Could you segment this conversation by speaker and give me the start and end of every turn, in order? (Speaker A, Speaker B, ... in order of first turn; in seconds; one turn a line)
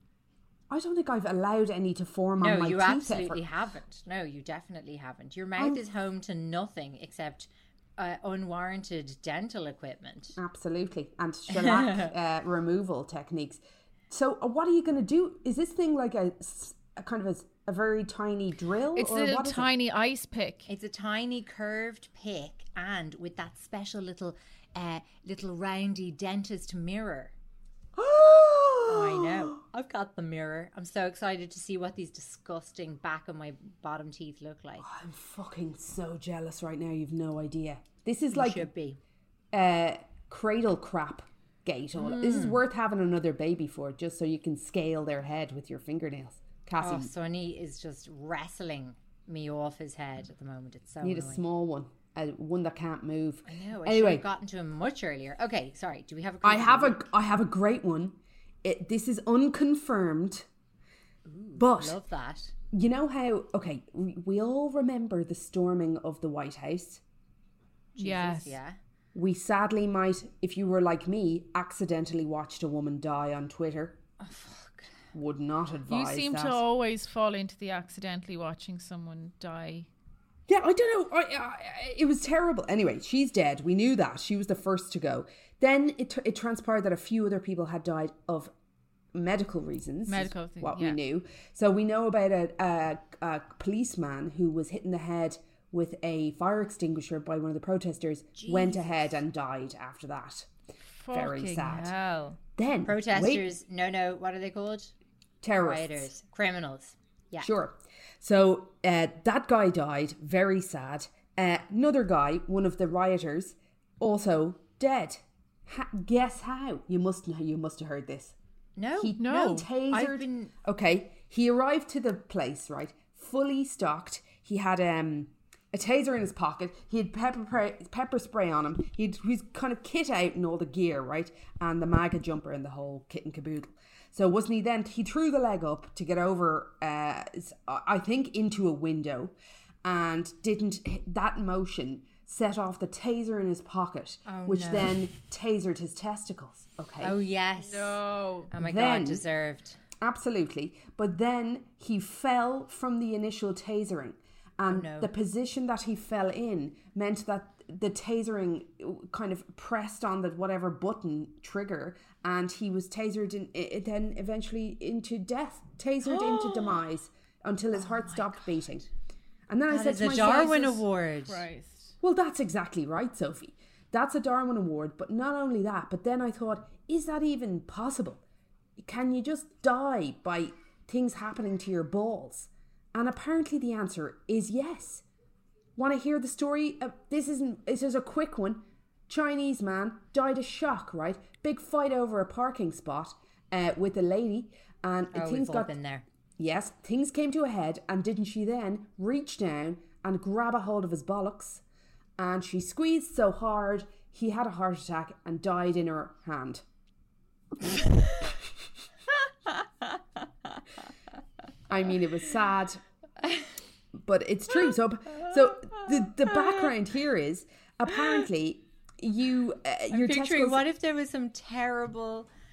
Speaker A: 0.7-3.4
Speaker B: 2.4-10.4
Speaker A: 5.6-5.8
Speaker A: 10.4-19.7
Speaker B: 11.5-12.1
Speaker C: 18.9-20.7
Speaker B: 20.7-27.3
Speaker A: 27.9-29.6
Speaker B: 28.9-34.9
Speaker A: 34.8-38.7
Speaker B: 38.3-39.0
Speaker A: 39.5-47.1
Speaker B: 42.0-42.6
Speaker B: 46.8-51.4
Speaker A: 51.0-54.2
Speaker B: 53.5-57.1
Speaker A: 56.4-60.5
Speaker B: 61.2-62.5
Speaker A: 61.5-62.0
Speaker A: 62.7-67.0
Speaker B: 67.9-68.8
Speaker C: 68.0-68.5
Speaker A: 69.1-74.0
Speaker B: 74.2-75.1
Speaker A: 75.1-76.6
Speaker C: 75.9-79.9
Speaker A: 80.5-88.5
Speaker A: 89.1-100.5
Speaker C: 90.1-91.0
Speaker B: 98.4-99.1
Speaker C: 101.0-102.4
Speaker A: 101.1-101.9
Speaker A: 102.6-103.5
Speaker B: 102.8-104.9
Speaker A: 105.4-106.1
Speaker B: 105.5-107.5
Speaker A: 107.4-118.3
Speaker B: 118.8-120.5
Speaker A: 119.0-147.2
Speaker C: 119.2-119.7
Speaker B: 144.2-145.1
Speaker B: 147.0-149.8
Speaker C: 147.6-148.5
Speaker A: 148.6-149.2
Speaker A: 150.0-168.8
Speaker B: 154.7-155.1
Speaker B: 166.0-166.8
Speaker B: 167.7-168.8
Speaker A: 169.5-170.8
Speaker B: 169.7-171.4
Speaker C: 171.2-171.9
Speaker A: 172.0-178.2
Speaker A: 178.8-185.0
Speaker A: 185.8-195.7
Speaker B: 195.1-196.0
Speaker A: 196.4-201.6
Speaker A: 202.2-206.6
Speaker A: 211.7-212.8
Speaker A: 213.9-220.6
Speaker B: 215.2-216.7
Speaker B: 219.9-222.3